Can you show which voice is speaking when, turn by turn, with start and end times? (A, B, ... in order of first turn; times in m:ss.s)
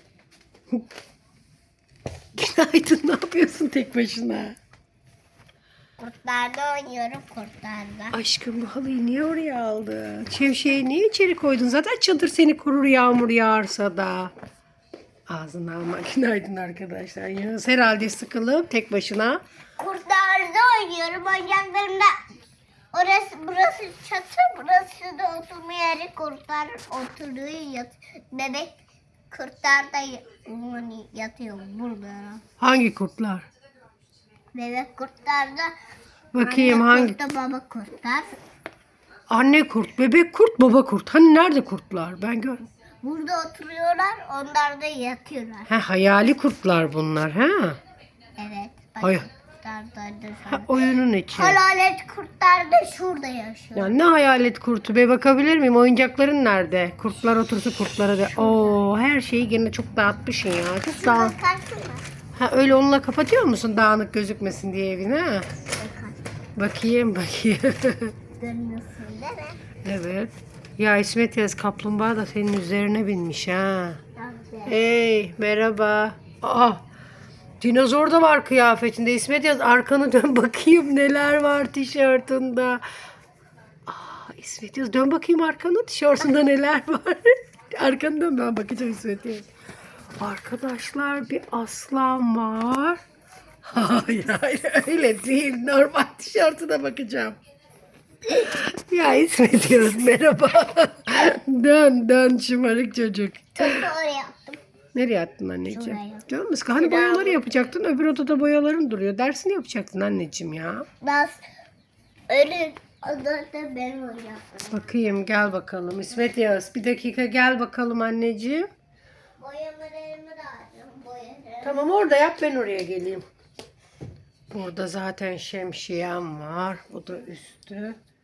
0:02.4-0:04.6 A
0:06.0-0:08.2 B
0:08.1-0:14.3 A
0:15.3-0:19.4 A
0:19.8-0:22.1 B
0:22.9-0:28.8 B
0:29.3-0:32.4 B
0:32.6-0:33.4 A
0:34.5-0:35.7 B
0:36.3-0:37.2 A
0:36.4-0:38.3 B
0:39.3-0:42.6 A
0:43.0-0:45.7 B
0:45.7-0:47.8 A
0:48.4-0:50.7 B
0:50.5-0:51.6 A
0:51.4-0:54.0 B
0:53.8-1:01.4 A
0:58.3-0:58.8 B
1:00.9-1:02.0 B
1:02.4-1:05.5 A
1:05.8-1:06.2 B
1:06.6-1:08.1 A
1:08.4-1:09.6 B
1:09.8-1:14.0 A
1:14.2-1:14.8 B
1:14.7-1:16.8 A
1:17.6-1:22.8 A
1:23.9-1:29.5 A
1:30.2-1:33.0 A
1:33.6-1:37.4 A
1:38.3-1:43.9 A
1:43.6-1:44.6 B
1:45.0-1:50.9 A
1:45.7-1:47.4 B
1:51.0-1:51.4 B
1:52.3-1:54.9 B
1:54.7-1:58.7 A
1:59.4-2:01.8 B
2:01.6-2:03.2 A
2:04.5-2:08.0 A